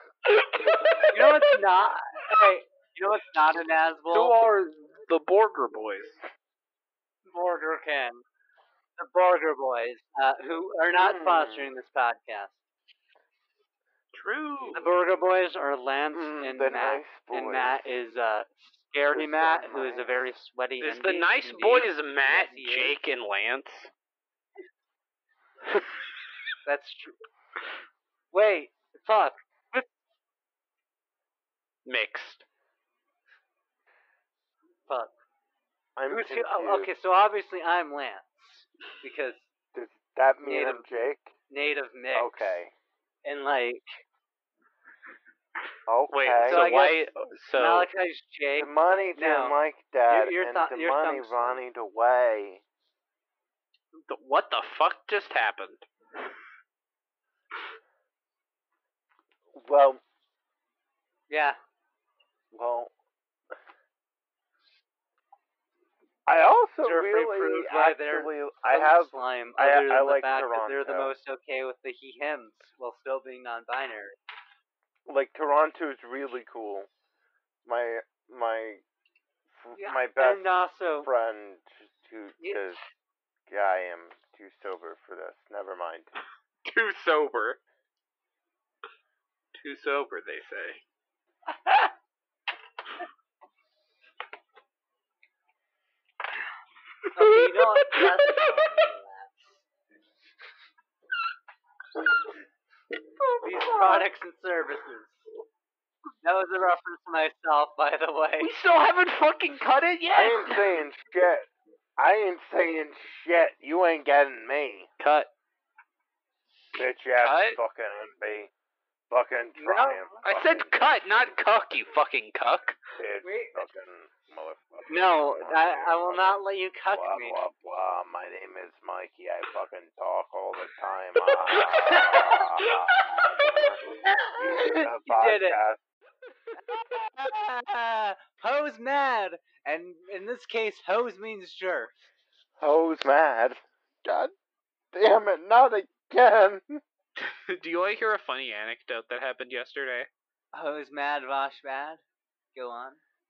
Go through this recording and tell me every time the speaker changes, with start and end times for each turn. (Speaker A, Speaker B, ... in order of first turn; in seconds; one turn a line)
Speaker A: 0.3-1.6
Speaker B: 1.1-4.3
Speaker A: 4.1-6.2
Speaker B: 7.3-8.2
Speaker B: 9.0-12.6
Speaker C: 10.9-11.7
Speaker A: 14.1-14.9
Speaker B: 14.8-23.0
Speaker C: 16.1-17.8
Speaker C: 19.1-20.1
Speaker A: 20.8-23.9
Speaker B: 26.6-27.2
Speaker B: 28.3-29.4
Speaker A: 31.9-32.4
Speaker B: 34.9-35.1
Speaker C: 36.0-36.9
Speaker B: 36.1-39.5
Speaker C: 39.7-41.3
Speaker B: 40.5-40.8
Speaker B: 41.5-42.6
Speaker C: 42.1-42.7
Speaker B: 43.2-44.0
Speaker C: 45.9-46.7
Speaker A: 46.1-47.9
Speaker B: 46.4-49.6
Speaker C: 48.5-52.6
Speaker B: 50.1-51.6
Speaker A: 54.1-55.9
Speaker C: 59.5-60.0
Speaker B: 61.3-61.6
Speaker C: 62.5-62.9
Speaker C: 66.3-71.1
Speaker B: 66.8-74.2
Speaker C: 75.1-76.9
Speaker C: 77.7-78.8
Speaker C: 79.5-82.8
Speaker B: 79.8-81.1
Speaker B: 82.4-82.7
Speaker C: 83.5-86.1
Speaker A: 86.7-87.6
Speaker A: 89.5-90.8
Speaker B: 97.1-99.5
Speaker A: 97.8-98.5
Speaker A: 103.2-104.1
Speaker B: 103.4-105.2
Speaker B: 106.2-108.5
Speaker A: 108.4-110.8
Speaker C: 110.1-114.9
Speaker A: 115.0-115.3
Speaker C: 116.8-118.5
Speaker A: 117.2-117.6
Speaker C: 119.1-120.9
Speaker B: 119.6-120.0
Speaker A: 120.2-122.8
Speaker C: 123.0-135.8
Speaker B: 123.2-123.6
Speaker B: 124.9-127.4
Speaker A: 131.2-133.3
Speaker B: 134.2-135.6
Speaker B: 136.9-141.9
Speaker C: 142.6-144.2
Speaker C: 144.9-146.8
Speaker A: 147.2-150.1
Speaker B: 150.5-152.0
Speaker B: 152.5-153.0